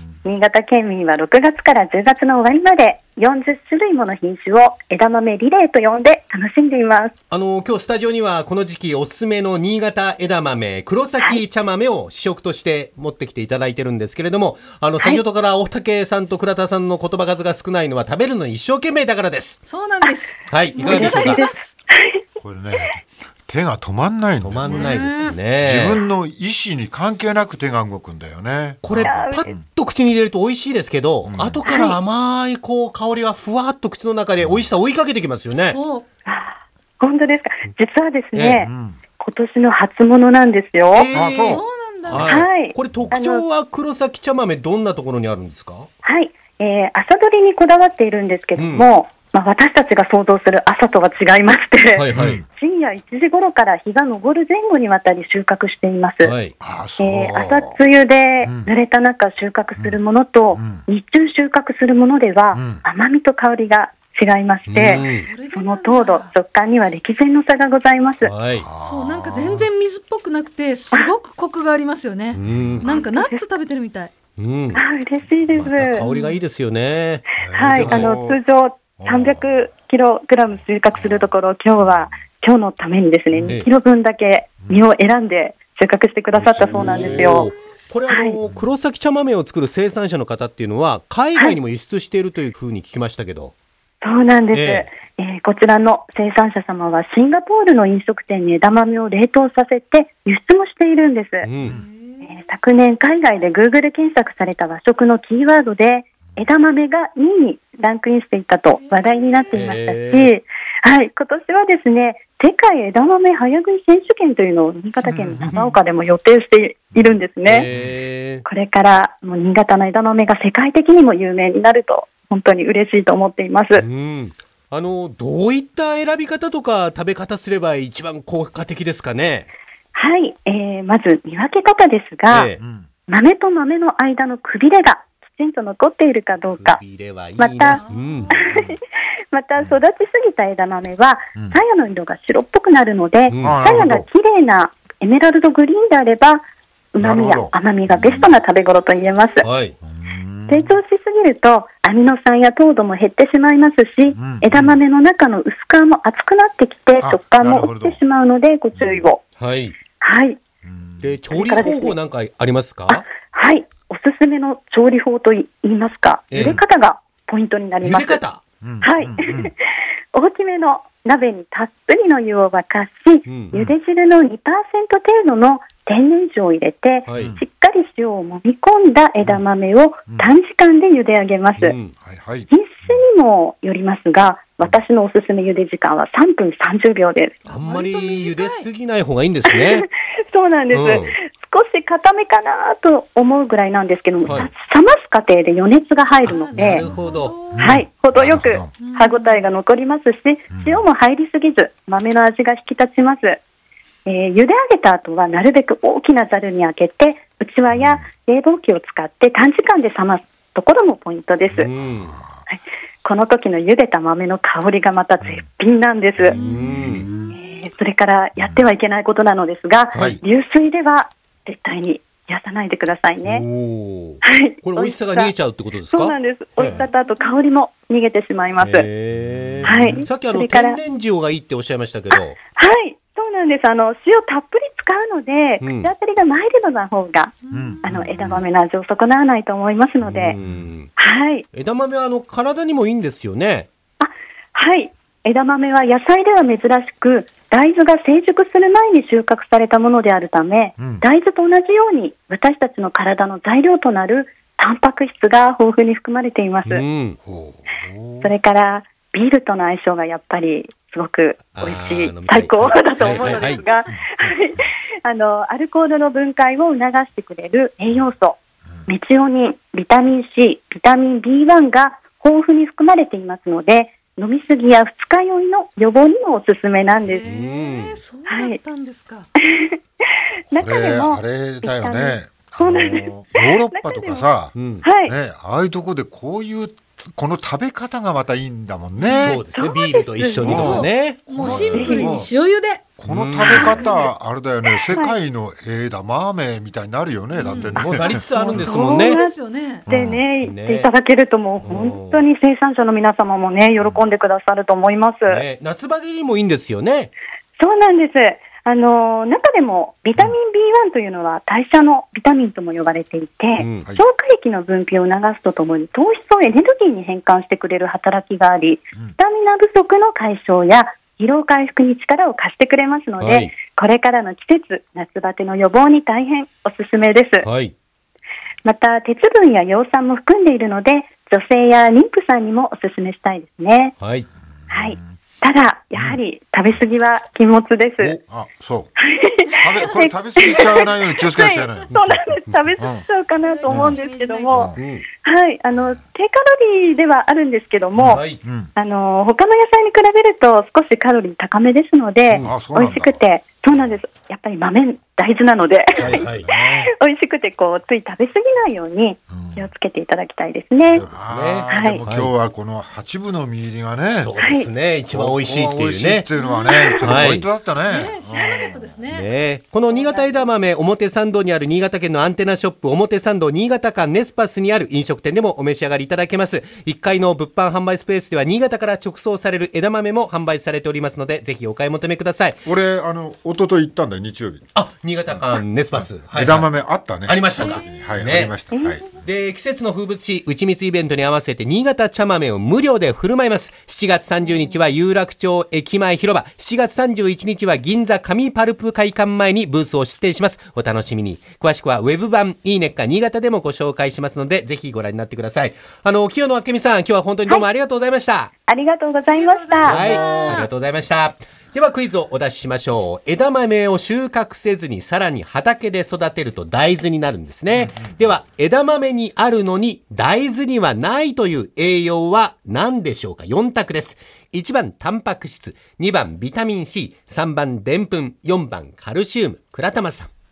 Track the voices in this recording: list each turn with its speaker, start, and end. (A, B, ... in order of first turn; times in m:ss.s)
0:00.2-0:07.1 A
0:07.3-0:19.6 B
0:19.6-0:21.7 C
0:20.5-0:21.4 B
0:20.8-0:22.2 A
0:22.4-0:29.6 D
0:24.4-0:26.0 B
0:24.7-0:25.4 C
0:28.8-0:35.8 B
0:29.0-0:29.5 A
0:31.2-0:31.7 D
0:31.6-0:32.0 A
0:34.4-0:34.7 D
0:35.5-0:36.0 C
0:36.2-0:41.1 A
0:38.3-0:38.7 B
0:38.6-0:39.0 D
0:40.9-0:45.9 B
0:41.1-0:41.6 D
0:41.5-0:42.4 C
0:42.2-0:43.4 A
0:46.0-0:56.3 A
0:48.6-0:48.9 B
0:51.9-0:52.4 B
0:52.1-0:52.4 D
0:56.2-0:56.5 B
0:56.6-0:57.8 D
0:57.0-1:08.3 A
0:58.4-0:58.7 D
1:00.5-1:00.8 D
1:02.5-1:02.8 D
1:04.7-1:05.3 B
1:04.9-1:06.3 C
1:08.2-1:08.7 B
1:08.6-1:09.7 D
1:08.8-1:14.1 C
1:12.3-1:12.9 B
1:12.4-1:12.9 D
1:12.9-1:13.4 A
1:14.4-1:14.8 B
1:14.7-1:16.0 A
1:15.5-1:15.9 D
1:15.8-1:18.1 B
1:16.0-1:16.4 C
1:17.4-1:18.4 D
1:17.5-1:27.5 A
1:19.0-1:19.7 D
1:20.9-1:22.1 D
1:23.3-1:23.6 D
1:26.3-1:27.5 D
1:27.0-1:33.5 B
1:28.1-1:28.4 A
1:34.0-1:41.5 A
1:34.5-1:34.9 B
1:41.4-1:41.7 B
1:41.6-1:42.5 C
1:42.2-1:57.7 A
1:48.8-1:49.7 C
1:49.5-1:50.3 B
1:55.0-1:55.8 D
1:56.9-1:57.9 D
1:57.4-1:58.4 B
1:58.4-2:03.8 A
2:03.7-2:09.5 B
2:09.9-2:12.5 A
2:12.3-2:12.6 B
2:12.6-2:12.9 D
2:13.1-2:16.8 A
2:16.3-2:18.3 B
2:17.4-2:18.8 A
2:17.6-2:18.5 C
2:19.3-2:26.4 A
2:23.3-2:23.6 B
2:23.4-2:24.1 D
2:26.9-2:29.5 A
2:27.0-2:28.4 D
2:29.4-2:29.7 B
2:29.8-2:30.8 D
2:30.5-2:39.2 A
2:34.1-2:34.8 D
2:37.0-2:38.0 D
2:38.7-2:39.0 D
2:39.4-2:39.8 B
2:40.0-2:40.4 A
2:40.6-2:41.2 D
2:41.0-2:43.0 B
2:41.3-2:42.0 A
2:42.9-2:48.2 A
2:46.3-2:46.6 B
2:46.3-2:46.6 D
2:47.8-2:48.4 B
2:48.6-2:49.5 D
2:48.8-3:01.8 A
2:53.2-2:53.5 B
2:57.0-2:57.4 B
2:57.1-2:57.4 D
3:00.1-3:00.3 D
3:01.6-3:01.9 B
3:02.0-3:03.0 D
3:02.5-3:07.4 A
3:07.4-3:09.8 B
3:07.5-3:08.6 C
3:09.5-3:16.8 A
3:10.7-3:11.1 B
3:14.2-3:14.5 B
3:16.2-3:17.7 C
3:16.6-3:17.3 B
3:16.6-3:18.7 D
3:17.6-3:23.4 A
3:18.8-3:19.5 C
3:20.5-3:20.8 D
3:24.0-3:31.7 A
3:27.7-3:28.0 D
3:31.5-3:32.1 B
3:32.0-3:32.4 D
3:32.5-3:36.4 A
3:36.2-3:37.1 B
3:36.4-3:37.4 D
3:37.3-3:43.4 A
3:38.4-3:38.6 D
3:39.9-3:40.2 B
3:43.2-3:46.9 B
3:44.2-3:45.3 A
3:45.9-3:48.9 A
3:48.6-3:52.4 B
3:49.1-3:50.0 D
3:49.6-3:50.8 A
3:52.5-4:00.4 A
3:55.6-3:55.9 B
3:57.4-3:58.0 C
3:57.5-3:58.4 D
4:00.0-4:00.6 D
4:00.2-4:00.9 B
4:01.0-4:01.4 A
4:01.5-4:03.7 B
4:04.0-4:16.8 A
4:10.8-4:11.0 D
4:16.6-4:17.2 B
4:17.2-4:18.3 D
4:18.2-4:37.2 A
4:21.5-4:23.6 B
4:37.0-4:39.3 C
4:37.1-4:38.0 B
4:38.2-4:38.6 A
4:39.4-4:39.8 A
4:40.5-4:44.3 A
4:40.5-4:49.4 D
4:44.5-4:44.8 B
4:44.8-4:45.1 A
4:49.0-4:50.9 A
4:49.2-4:51.4 B
4:50.4-4:52.3 D
4:50.4-4:52.8 C
4:51.7-4:52.1 A
4:53.0-4:58.2 D
4:53.0-4:53.8 B
4:53.6-4:53.9 C
4:54.9-4:55.2 A
4:57.3-4:57.8 C
4:57.7-4:59.2 B
4:58.1-5:05.4 A
4:58.6-4:59.8 C
4:59.9-5:00.2 D
5:00.4-5:00.9 B
5:01.6-5:02.2 B
5:05.3-5:07.1 B
5:07.6-5:27.5 A
5:13.6-5:13.9 B
5:23.2-5:23.5 B
5:27.4-5:27.7 B
5:28.6-5:33.9 A
5:34.0-5:34.3 B
5:34.7-5:35.1 D
5:34.7-5:38.2 A
5:38.3-5:38.9 D
5:39.0-6:01.0 A
5:39.6-5:42.0 D
5:42.8-5:43.0 D
5:43.3-5:44.7 C
5:43.7-5:44.8 D
5:44.7-5:45.1 B
5:47.9-5:48.7 D
5:48.1-5:48.4 B
5:52.3-5:52.5 B
5:52.4-5:53.2 D
5:56.0-5:56.9 D
5:56.0-5:56.5 B
5:59.3-5:59.7 D
6:00.8-6:04.3 D
6:01.0-6:02.3 B
6:01.7-6:02.0 A
6:04.2-6:06.3 B
6:04.4-6:04.7 A
6:05.1-6:09.0 D
6:06.4-6:07.0 A
6:06.4-6:06.7 C
6:07.0-6:07.5 B
6:07.8-6:09.3 C
6:09.0-6:22.6 B
6:09.9-6:10.4 A
6:22.6-6:24.6 D
6:24.7-6:26.7 B
6:25.3-6:29.2 D
6:27.2-6:28.5 B
6:27.7-6:28.0 C
6:28.7-6:29.1 A
6:29.2-6:48.5 B
6:48.7-6:50.0 A
6:49.3-6:50.7 C
6:49.8-7:10.3 B
6:57.7-6:58.1 D